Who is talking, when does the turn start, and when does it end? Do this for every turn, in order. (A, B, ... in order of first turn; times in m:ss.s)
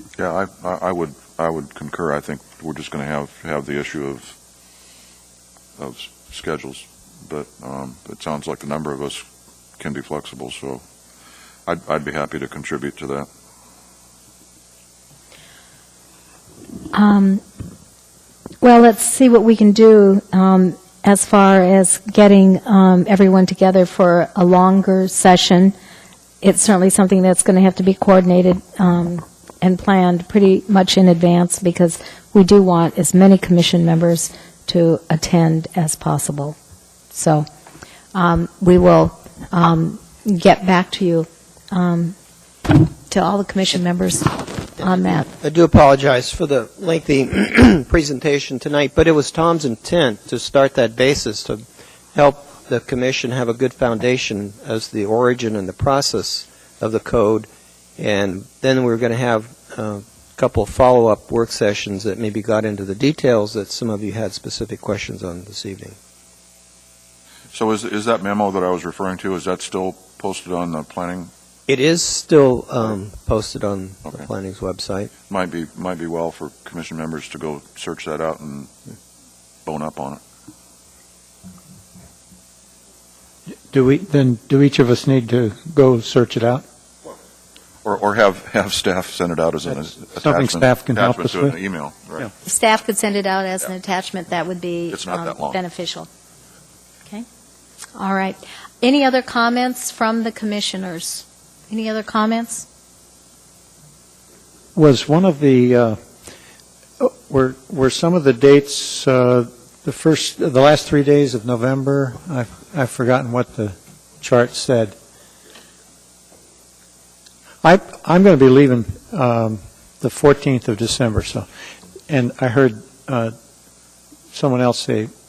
0:00.2-0:04.4 A
0:05.8-0:09.2 A
0:09.8-0:10.8 A
0:11.6-0:13.3 A
0:16.9-0:17.4 B
0:18.6-0:25.7 B
0:26.4-0:36.6 B
0:37.1-0:37.4 B
0:38.1-0:42.1 B
0:42.7-0:45.3 B
0:44.8-1:06.0 C
1:07.5-1:11.3 A
1:11.7-1:15.1 C
1:15.3-1:18.7 A
1:19.6-1:20.2 A
1:23.7-1:26.6 D
1:27.8-1:32.3 A
1:30.1-1:31.6 D
1:32.4-1:36.1 B
1:34.9-1:35.6 A
1:38.0-1:42.6 B
1:44.7-1:46.0 D
1:47.0-1:54.9 D
1:57.6-2:01.5 D
2:02.1-2:03.3 D
2:04.3-2:05.1 D